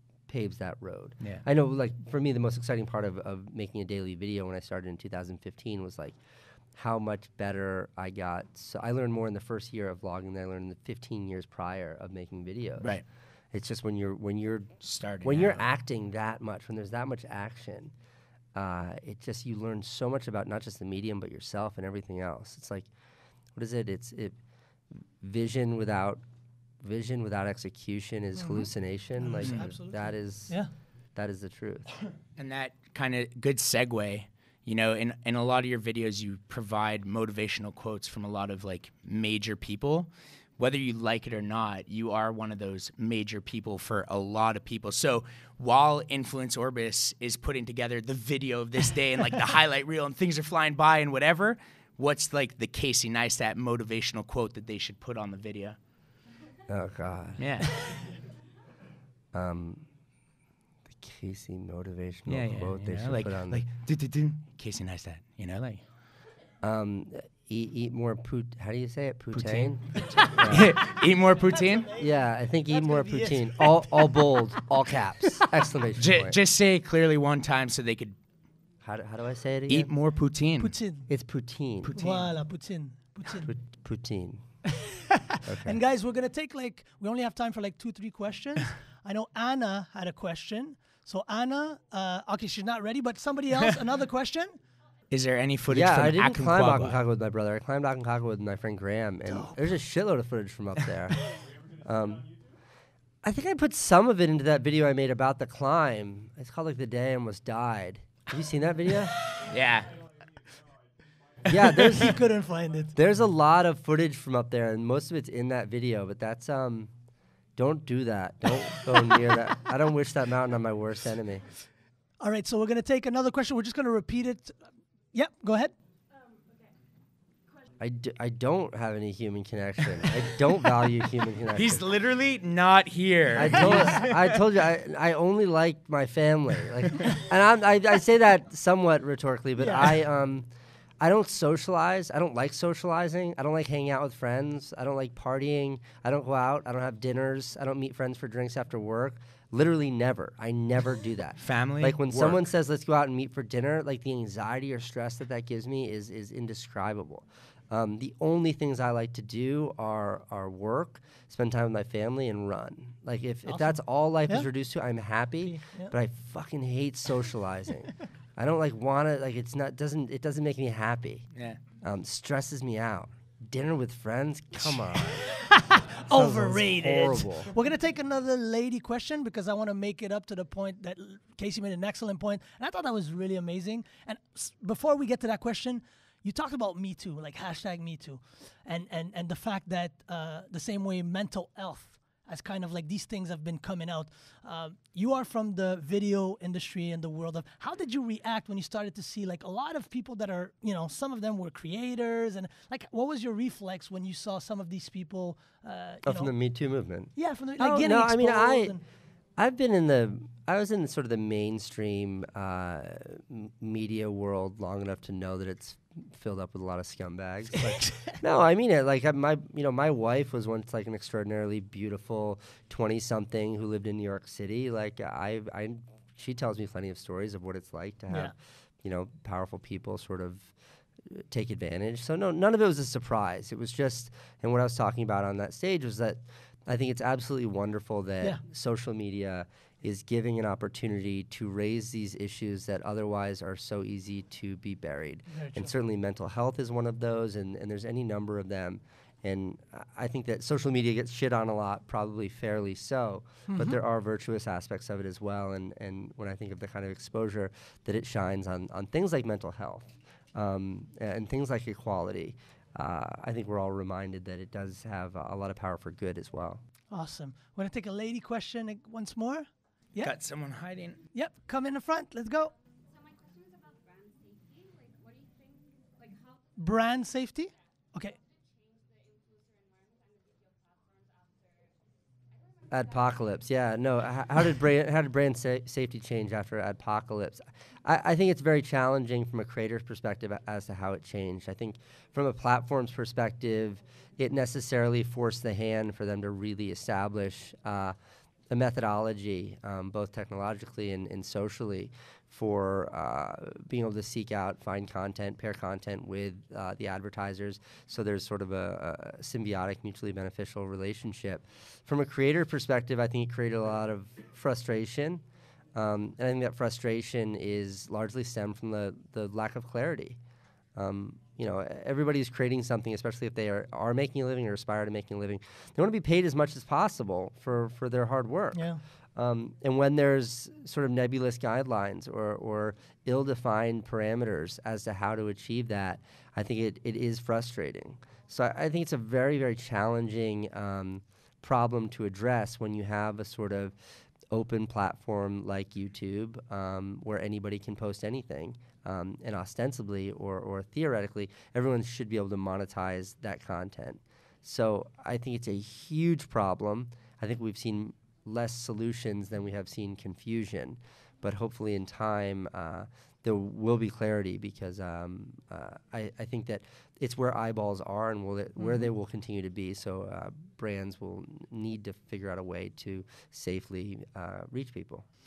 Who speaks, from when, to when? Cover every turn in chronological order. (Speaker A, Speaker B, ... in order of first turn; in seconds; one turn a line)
Speaker A: 0.3-6.2
Speaker A: 6.8-13.0
Speaker A: 13.5-17.9
Speaker B: 14.8-15.6
Speaker A: 18.5-22.9
Speaker A: 23.5-24.3
Speaker A: 25.2-26.2
Speaker A: 26.8-30.6
Speaker C: 28.4-30.7
Speaker B: 29.4-29.7
Speaker A: 31.1-31.9
Speaker B: 32.4-55.8
Speaker A: 56.7-57.7
Speaker B: 57.4-57.9
Speaker A: 59.3-59.8
Speaker A: 60.9-63.6
Speaker B: 62.3-65.8
Speaker A: 66.6-70.8
Speaker B: 69.3-71.9
Speaker C: 70.0-70.5
Speaker C: 71.5-72.1
Speaker A: 71.9-76.4
Speaker C: 72.7-74.4
Speaker B: 76.0-78.2
Speaker A: 78.8-79.9
Speaker B: 79.7-80.7
Speaker C: 80.6-81.1
Speaker A: 81.1-82.0
Speaker B: 81.8-82.3
Speaker C: 81.9-83.5
Speaker A: 83.3-84.4
Speaker C: 84.6-94.5
Speaker A: 85.4-85.8
Speaker B: 95.1-97.0
Speaker A: 95.7-102.3
Speaker C: 99.2-99.7
Speaker A: 103.2-109.3
Speaker B: 109.3-109.9
Speaker A: 111.4-112.3
Speaker C: 111.7-112.9
Speaker A: 112.9-116.9
Speaker A: 117.6-121.4
Speaker C: 122.2-124.6
Speaker C: 125.1-125.7
Speaker D: 126.1-126.7
Speaker A: 127.8-131.8
Speaker B: 131.5-134.4
Speaker A: 133.3-140.5
Speaker C: 133.6-134.1
Speaker C: 139.6-140.0
Speaker A: 141.0-171.2
Speaker B: 151.4-152.4
Speaker C: 163.4-163.8
Speaker C: 165.4-165.9
Speaker B: 171.3-171.6
Speaker A: 171.8-175.4
Speaker C: 175.2-206.3
Speaker A: 176.1-177.5
Speaker A: 206.0-208.8
Speaker C: 207.2-208.8
Speaker A: 209.4-230.5
Speaker C: 217.7-218.2
Speaker A: 231.1-266.6
Speaker C: 245.3-245.7
Speaker C: 253.5-253.8
Speaker C: 266.9-270.1
Speaker B: 270.0-271.0
Speaker C: 271.1-272.5
Speaker D: 272.8-276.7
Speaker C: 276.6-278.2
Speaker D: 278.0-283.4
Speaker A: 282.7-297.9
Speaker A: 298.5-315.2
Speaker A: 315.7-320.2
Speaker A: 320.8-343.8
Speaker C: 328.5-328.8
Speaker A: 344.3-375.1
Speaker C: 368.6-368.9